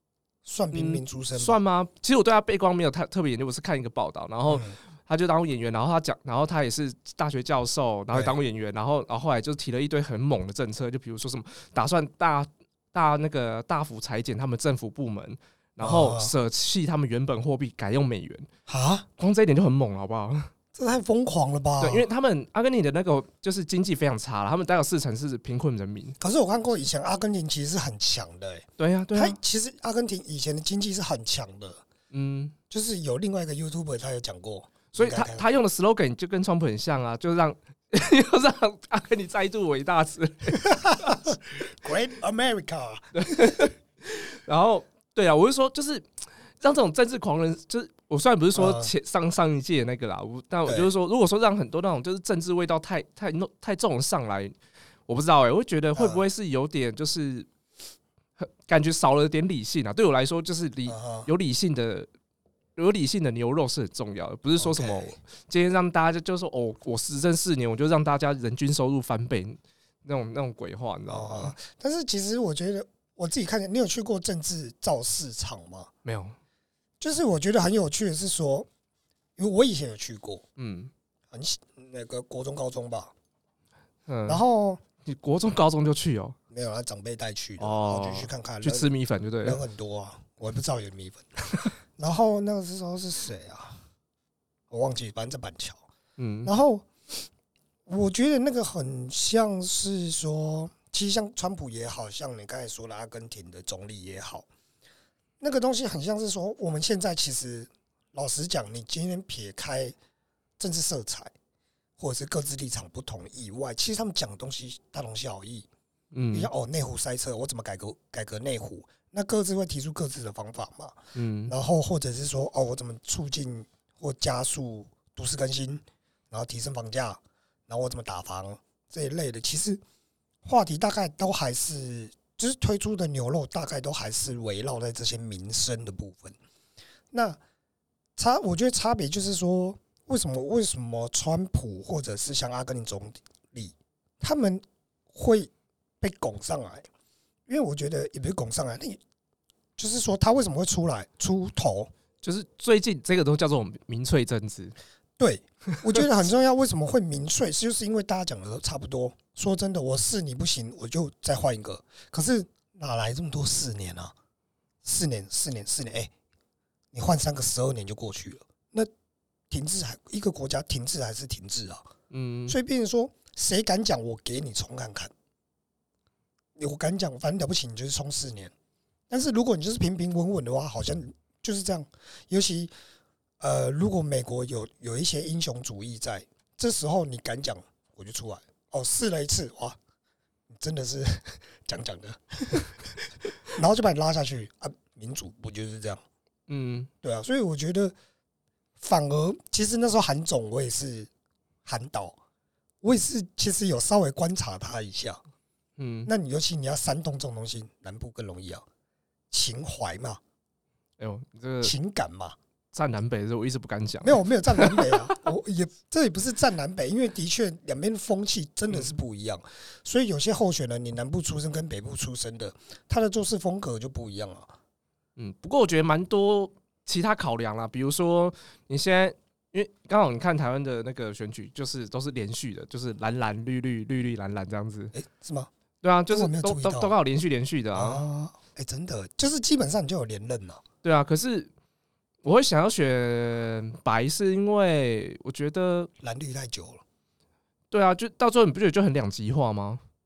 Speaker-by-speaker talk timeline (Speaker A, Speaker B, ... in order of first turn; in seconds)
Speaker A: 0.5-1.6, 4.5-4.8, 15.8-16.3, 18.7-19.1, 20.7-22.1, 26.2-31.8, 32.7-35.5, 40.6-43.7, 48.5-48.9, 56.0-56.2, 60.9-61.3, 64.6-65.2, 71.1-75.9, 77.0-78.7, 79.4-80.4, 81.3-83.1, 84.3-84.8, 86.5-88.9, 89.4-91.3, 92.0-93.8, 94.7-95.8, 96.5-97.2, 97.9-104.5, 105.4-110.0, 110.6-111.3, 112.0-115.7, 116.3-129.8, 130.4-136.4, 137.1-137.4, 138.2-146.9, 147.5-149.0, 149.8-151.9, 155.2-164.1, 164.8-166.1, 166.9-168.9, 169.5-171.9, 172.5-175.1, 176.6-178.5, 179.1-182.7, 183.4-189.8, 190.5-196.0, 197.0-197.9, 198.8-201.1, 201.7-202.2, 202.8-205.2, 206.1-208.7, 209.3-210.2, 211.6-212.4, 214.0-224.5, 234.9-235.5, 236.1-236.9, 237.8-240.6, 246.0-246.8
Speaker B: 0.7-18.5, 19.2-20.5, 21.8-26.2, 28.8-29.4, 32.1-32.5, 34.9-41.2, 43.1-46.1, 46.6-54.5, 55.1-57.5, 58.4-62.1, 62.8-71.6, 76.0-76.4, 80.6-80.9, 84.1-84.4, 85.0-86.4, 87.6-89.6, 96.2-96.5, 116.1-116.5, 121.2-121.5, 152.2-154.8, 172.1-172.6, 196.5-196.9, 205.8-206.1, 211.0-211.7, 212.7-215.2, 225.2-234.9, 235.8-238.0, 240.8-241.5, 242.2-245.9, 247.7-249.8